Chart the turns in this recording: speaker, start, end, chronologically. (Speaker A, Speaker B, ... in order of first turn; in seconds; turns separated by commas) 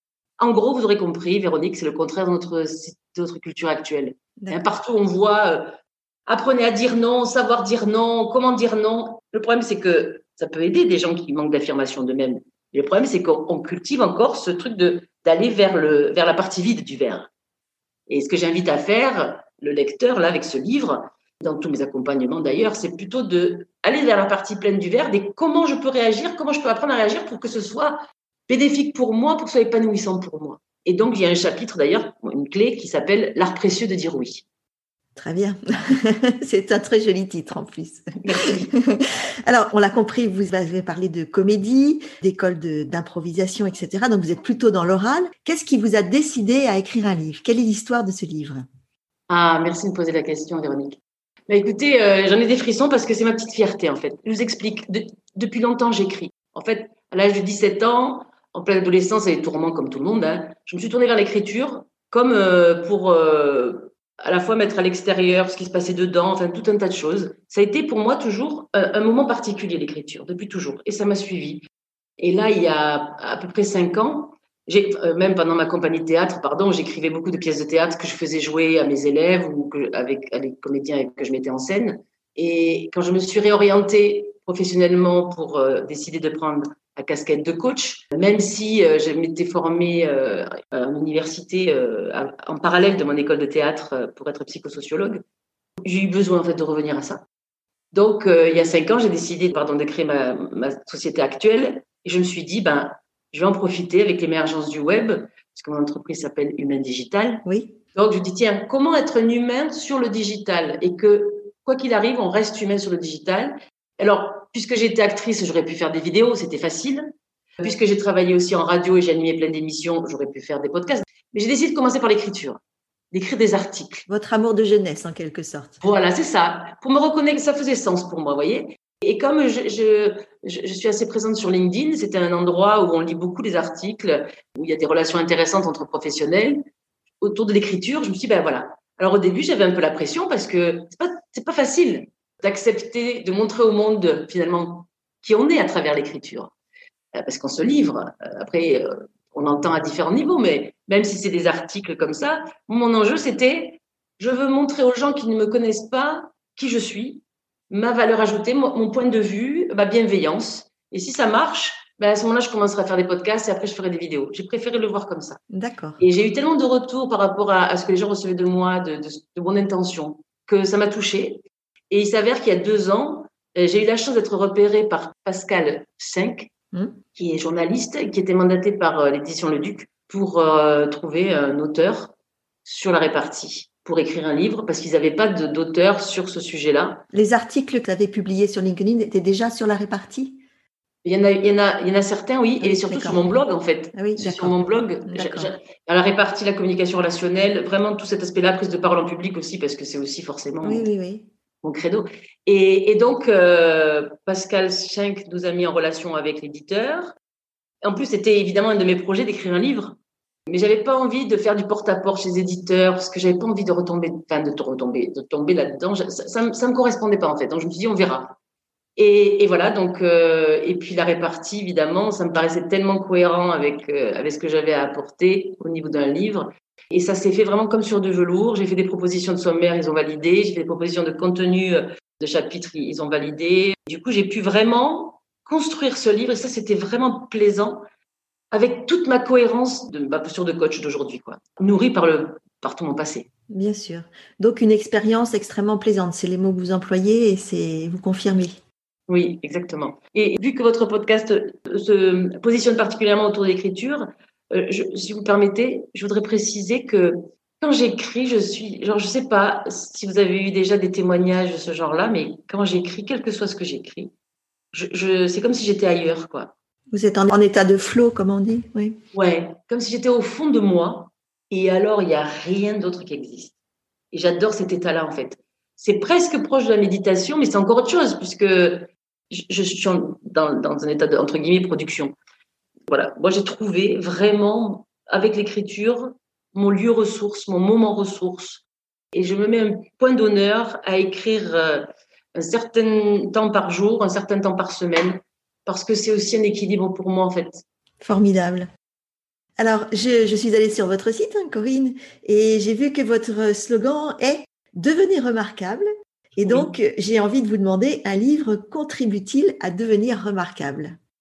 Speaker A: 0.4-5.7, Speaker A: 6.3-17.3, Speaker A: 18.1-34.4, Speaker B: 35.1-48.6, Speaker A: 38.2-38.7, Speaker A: 49.3-71.7, Speaker A: 72.2-95.2, Speaker A: 95.8-97.2, Speaker A: 97.9-117.0, Speaker B: 107.4-107.8, Speaker A: 117.6-122.6, Speaker A: 123.1-124.1, Speaker B: 124.1-125.8, Speaker A: 125.8-136.6, Speaker A: 137.2-146.5, Speaker A: 147.2-165.4, Speaker B: 165.5-166.0, Speaker A: 166.0-176.5, Speaker B: 176.7-177.0, Speaker A: 177.2-182.1, Speaker A: 182.7-187.0, Speaker B: 187.1-190.4, Speaker A: 191.0-200.9, Speaker B: 192.6-193.2, Speaker B: 193.9-194.6, Speaker B: 195.1-195.5, Speaker B: 200.6-201.3, Speaker A: 201.6-207.2, Speaker A: 207.8-210.0, Speaker A: 210.5-218.4, Speaker A: 218.9-237.8, Speaker A: 238.5-243.3, Speaker B: 243.5-248.6, Speaker A: 249.1-264.1, Speaker A: 264.7-266.5, Speaker B: 266.9-269.0, Speaker A: 269.1-273.5, Speaker A: 274.1-282.1, Speaker A: 282.9-297.6, Speaker B: 298.0-298.7, Speaker B: 299.6-311.0, Speaker A: 306.4-306.7